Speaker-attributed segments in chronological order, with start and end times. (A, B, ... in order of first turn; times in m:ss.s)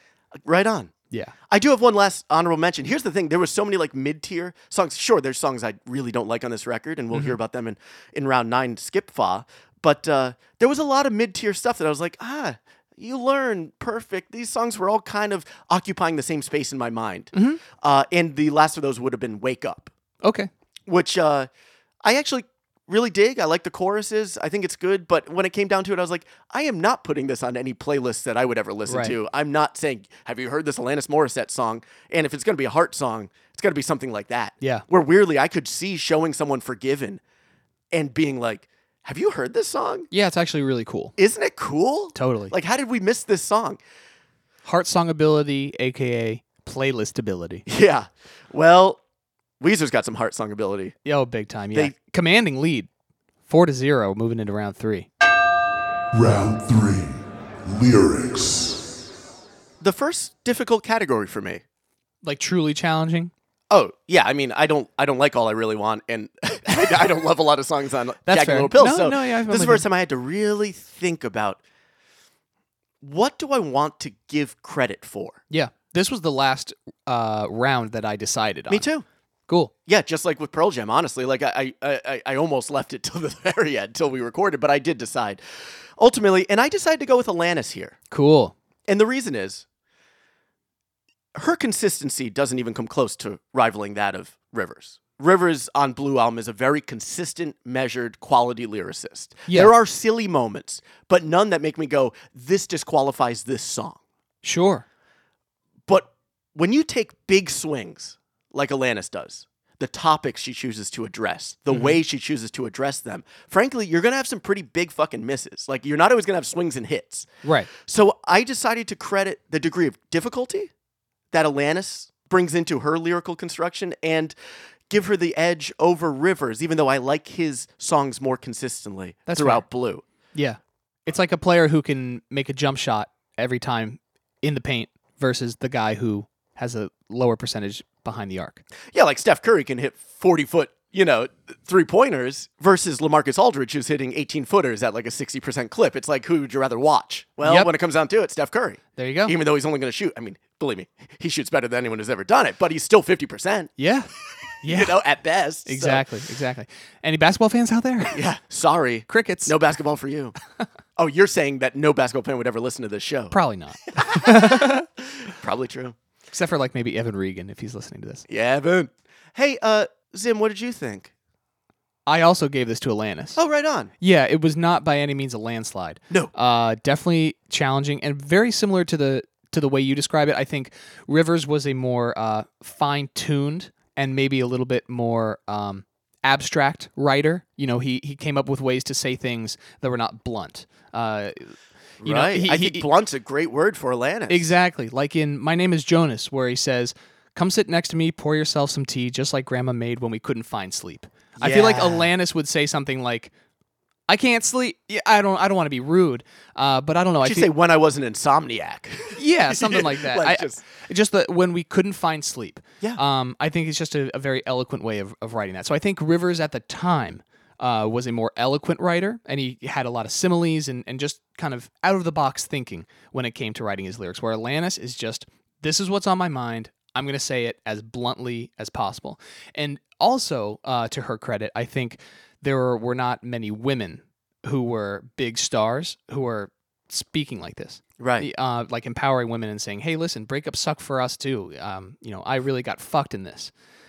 0:00.4-0:00.9 A
0:01.5-0:19.9 A
0:07.1-0:07.4 B
0:17.3-0:17.6 B
0:20.2-0:20.5 B
0:20.9-0:21.5 A
0:22.0-0:37.2 A
0:28.9-0:29.2 B
0:37.9-0:40.1 A
0:40.1-0:41.2 B
0:41.2-0:43.8 A
0:42.2-0:42.5 B
0:44.6-0:47.6 B
0:47.7-0:49.0 A
0:49.6-0:51.0 A
0:51.1-0:52.9 B
0:53.5-0:55.1 B
0:56.1-0:58.8 C
0:59.8-1:01.6 A
1:02.2-1:03.3 B
1:03.7-1:11.6 A
1:08.3-1:09.8 B
1:13.0-1:15.4 A
1:15.5-1:18.9 B
1:18.7-1:19.1 A
1:19.9-1:25.4 A
1:26.0-1:28.0 A
1:28.1-1:28.5 B
1:28.9-1:29.6 A
1:31.4-1:44.0 A
1:39.5-1:39.7 B
1:44.4-1:44.8 B
1:45.9-2:00.7 A
1:51.7-1:52.0 B
1:57.4-1:57.7 B
2:01.3-2:04.4 A
2:04.9-2:10.0 A
2:09.3-2:09.6 B
2:10.4-2:18.6 B
2:18.9-2:33.7 A
2:27.4-2:27.7 B
2:29.0-2:29.4 B
2:33.8-2:34.1 B
2:34.6-2:35.0 B
2:34.6-2:36.0 A
2:35.7-2:38.2 B
2:38.1-2:40.4 A
2:39.1-2:39.6 B
2:41.0-2:43.4 A
2:43.3-2:44.9 B
2:44.0-2:46.0 A
2:46.3-2:48.3 B
2:48.3-2:51.1 A
2:52.1-2:53.4 B
2:53.4-2:53.9 A
2:54.0-3:12.9 B
3:12.0-3:14.5 A
3:14.3-3:23.3 B
3:21.4-3:22.1 A
3:24.1-3:27.5 B
3:27.2-3:30.6 A
3:29.2-4:03.5 B
3:58.0-3:58.3 A